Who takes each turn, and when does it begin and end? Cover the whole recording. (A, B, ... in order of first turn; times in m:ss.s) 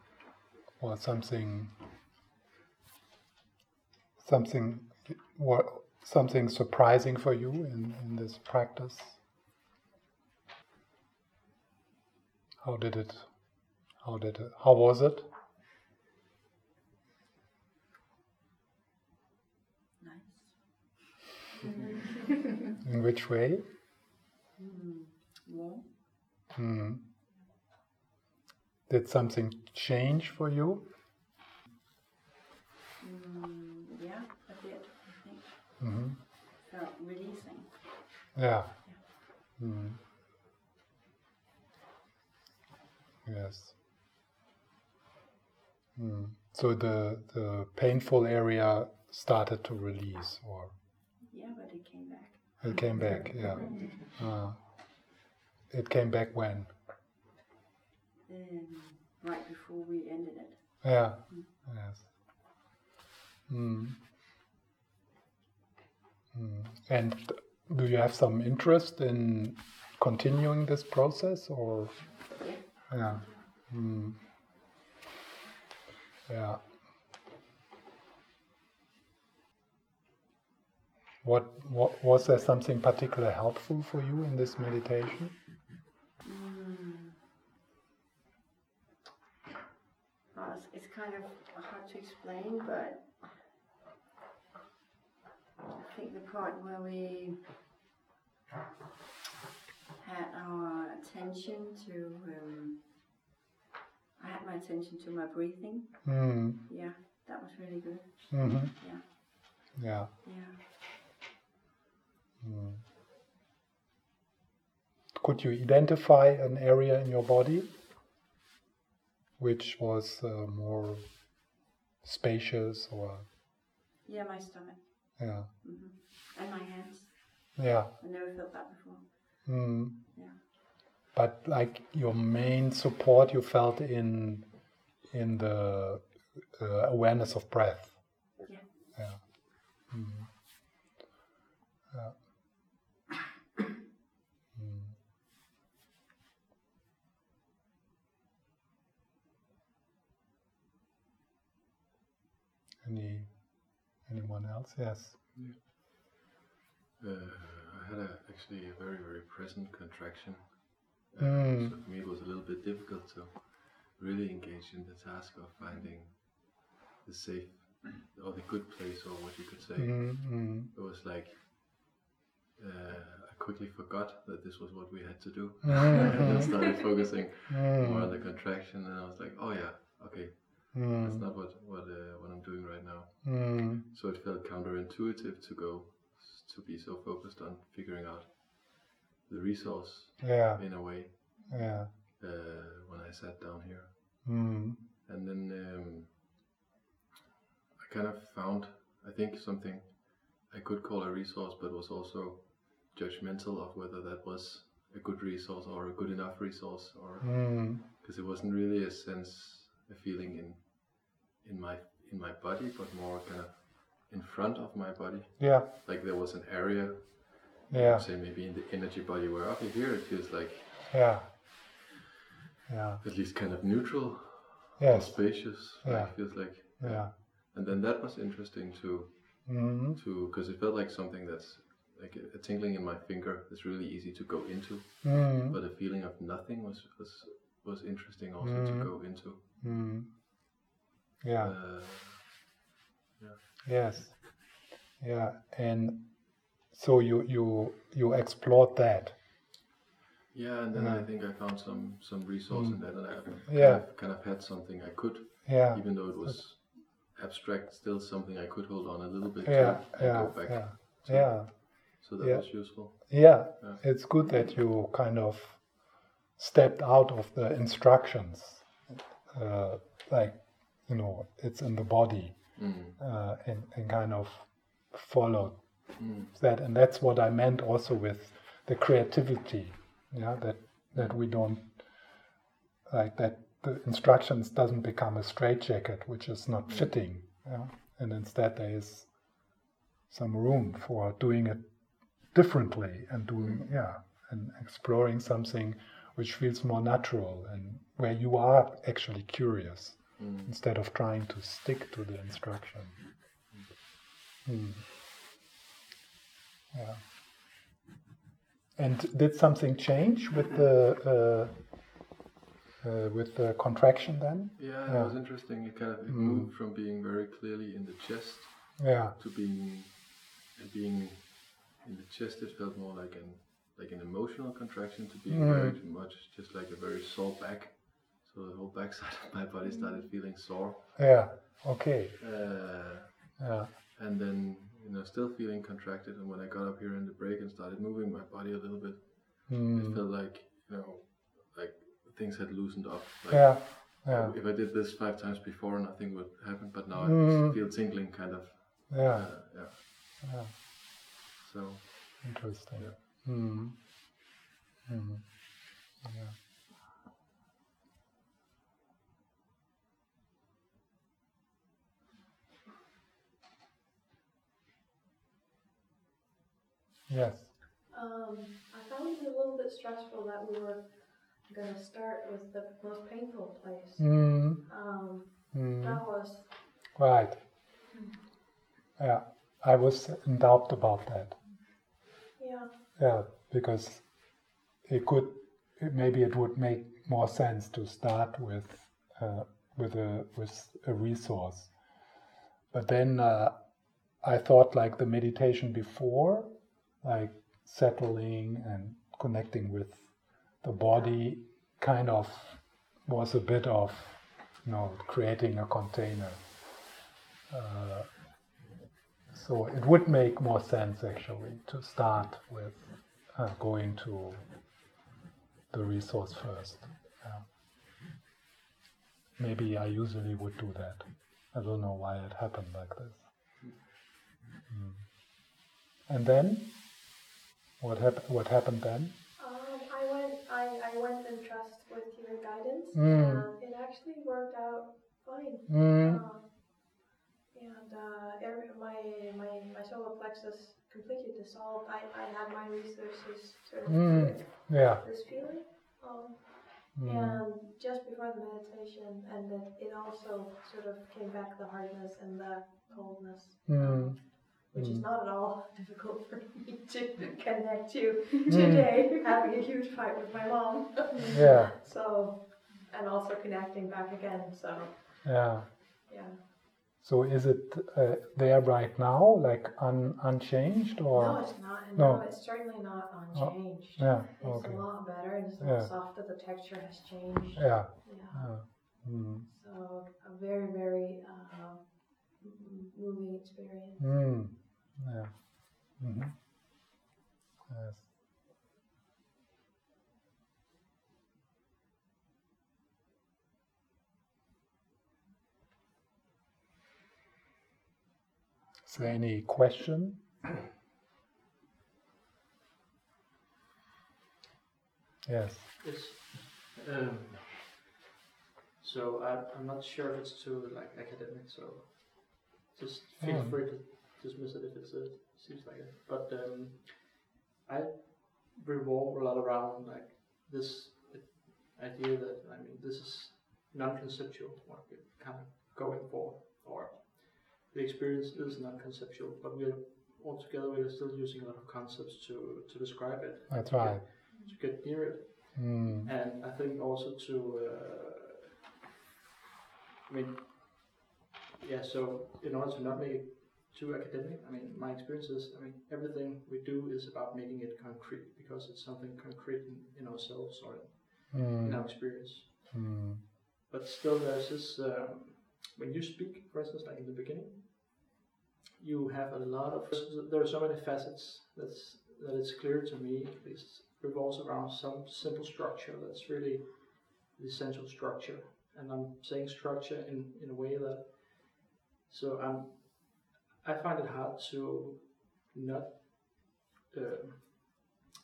0:00.8-0:01.7 A
0:04.2-0:09.2 A
0:12.6-0:15.3 A
0:20.0-0:21.0 B
0:21.6-0:22.4 B
0:22.8-0:23.6 A
0:24.6-0:25.9 B
0:26.5-0:27.0 A
0:28.9-0:30.9 A
0:33.0-0:39.2 B
0:35.8-0:36.2 A
0:38.3-0:40.0 A
0:43.2-0:43.8 A
0:46.0-0:50.7 A
0:51.2-0:54.2 B
0:52.6-0:56.8 A
0:58.3-1:01.5 B
1:00.8-1:02.5 A
1:03.5-1:04.0 A
1:06.3-1:14.2 A
1:12.2-1:13.4 B
1:16.3-1:16.9 A
1:21.2-1:25.4 A
1:26.2-1:27.2 B
1:30.3-1:33.4 B
1:35.7-1:37.4 B
1:40.0-1:42.9 B
1:44.2-1:50.6 B
1:46.0-1:46.6 A
1:48.3-1:49.2 A
1:49.8-1:50.1 A
1:52.4-1:52.8 A
1:55.2-1:57.8 A
1:59.4-2:03.2 A
2:04.0-2:10.4 B
2:05.2-2:05.5 A
2:07.6-2:07.9 A
2:09.4-2:10.1 A
2:11.1-2:18.4 A
2:18.4-2:19.2 B
2:18.9-2:20.8 A
2:21.9-2:22.6 A
2:24.5-2:25.0 A
2:32.8-2:35.3 A
2:37.0-2:52.0 C
2:41.2-2:41.8 A
2:49.8-2:50.7 A
2:52.6-3:11.5 C
2:55.6-2:56.8 A
2:57.5-2:58.1 A
3:00.7-3:01.2 A
3:03.2-3:03.8 A
3:10.2-3:11.9 A
3:12.2-3:13.9 C
3:14.2-3:14.8 A
3:15.0-3:16.4 C
3:17.8-3:41.2 C
3:27.2-3:27.8 A
3:35.4-3:35.7 A
3:37.7-3:38.0 A
3:40.9-3:41.3 A
3:42.7-3:43.0 A
3:43.0-3:59.4 C
3:44.8-3:47.1 A
3:49.4-3:50.0 A
3:55.0-3:55.6 A
3:58.4-4:00.1 A
4:01.2-4:01.5 A
4:01.4-4:02.5 C
4:03.2-4:04.0 C
4:03.6-4:09.2 A
4:10.3-4:23.8 C
4:10.7-4:11.0 A
4:12.5-4:13.8 A
4:15.4-4:16.5 A
4:19.4-4:42.3 A
4:32.5-4:33.0 C
4:36.0-4:36.3 C
4:42.8-4:49.5 A
4:50.1-5:03.1 A
4:53.4-4:53.6 C
5:00.2-5:00.5 C
5:04.4-5:04.9 A
5:06.7-5:07.0 A
5:08.8-5:12.0 A
5:12.8-5:16.5 A
5:14.6-5:31.6 C
5:18.8-5:19.2 A
5:25.3-5:25.8 A
5:29.6-5:30.0 D
5:31.0-5:32.2 A
5:32.2-5:49.8 C
5:33.4-5:33.7 A
5:39.5-5:40.0 A
5:43.3-5:44.3 A
5:47.0-5:47.6 A
5:48.9-5:50.5 A
5:51.4-5:53.0 C
5:52.2-5:54.3 A
5:54.8-5:56.4 A
6:07.1-6:07.5 A
6:07.9-6:16.5 D
6:14.0-6:17.4 A
6:17.9-6:18.2 D
6:19.0-6:21.4 A
6:22.4-6:22.7 D
6:23.0-6:31.7 A
6:32.7-6:46.6 A
6:47.5-6:48.4 A
6:49.3-6:54.7 A
6:55.7-6:57.5 A
6:59.4-7:03.5 A
7:04.7-7:05.5 A
7:06.1-7:07.1 A
7:07.8-7:09.1 A
7:09.4-7:46.4 D
7:12.9-7:13.4 A
7:15.7-7:16.2 A
7:23.8-7:25.0 A
7:27.0-7:27.4 A
7:33.6-7:35.0 A
7:38.5-7:39.1 A
7:41.3-7:41.7 A
7:45.2-7:45.7 A
7:47.0-7:52.8 A
7:51.1-8:04.4 D
7:53.3-7:55.9 A
7:57.5-7:59.5 A
8:04.0-8:06.4 A
8:07.7-8:08.1 A
8:18.8-8:20.2 A
8:25.2-8:25.7 A
8:25.8-8:27.8 E
8:28.8-8:58.5 E
8:33.2-8:33.6 A
8:53.5-8:54.0 A
8:54.3-8:54.6 D
8:55.6-8:56.1 A
9:00.1-9:01.0 E
9:01.6-9:12.7 E
9:11.3-9:13.2 A
9:13.7-9:18.1 E
9:18.8-9:37.9 E